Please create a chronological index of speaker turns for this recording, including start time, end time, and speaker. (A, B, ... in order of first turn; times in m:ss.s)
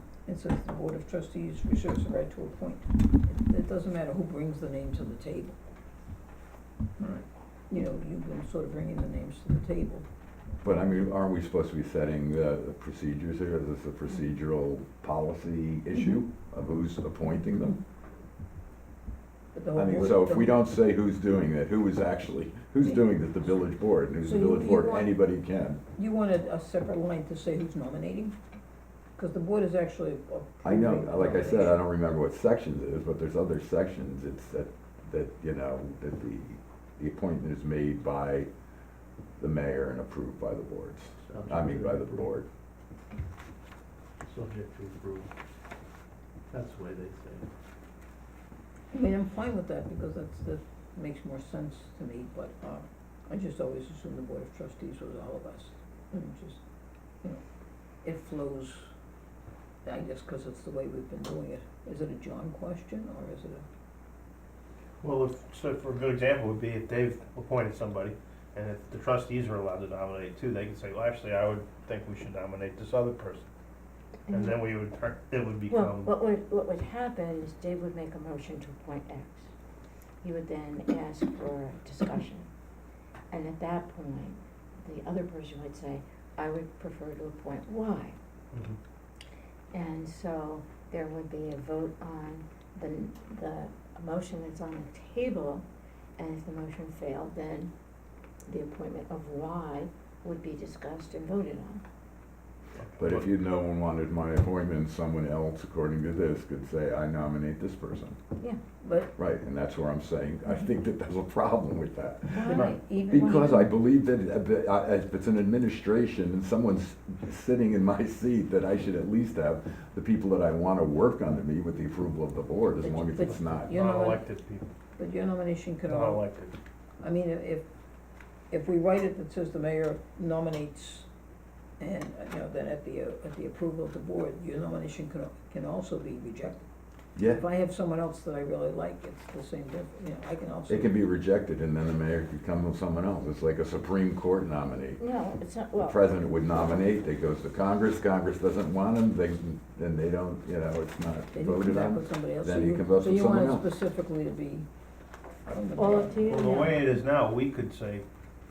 0:00.3-0:05.6 A
0:07.0-0:10.0 A
0:10.6-0:17.8 B
0:19.5-0:20.5 A
0:19.8-0:25.8 B
0:24.2-0:25.2 A
0:26.0-0:28.4 A
0:29.2-0:31.8 A
0:30.6-0:38.5 B
0:39.4-0:42.5 B
0:41.3-0:42.3 C
0:44.2-0:45.3 C
0:46.5-0:47.5 C
0:48.9-0:56.6 A
0:58.0-0:58.9 A
0:59.8-1:03.6 A
1:05.0-1:13.5 C
1:14.3-1:14.6 D
1:14.3-1:16.2 C
1:15.7-1:19.5 D
1:20.2-1:22.5 D
1:23.3-1:28.2 D
1:28.5-1:28.8 C
1:29.7-1:35.6 D
1:36.2-1:37.7 D
1:38.5-1:41.8 D
1:42.8-1:43.3 C
1:43.0-1:48.2 B
1:48.8-1:49.1 A
1:49.2-2:03.8 B
1:52.3-1:53.7 D
1:52.5-1:53.6 A
2:02.8-2:04.2 A
2:03.3-2:04.7 C
2:05.0-2:06.2 A
2:05.9-2:06.6 C
2:07.0-2:07.7 A
2:08.5-2:11.1 A
2:11.8-2:16.6 A
2:17.2-2:17.4 B
2:17.3-2:20.9 A
2:20.7-2:25.0 B
2:25.0-2:26.0 D
2:25.8-2:33.7 B
2:31.3-2:34.7 A
2:35.5-2:36.3 A
2:35.8-2:36.9 D
2:36.3-2:38.0 C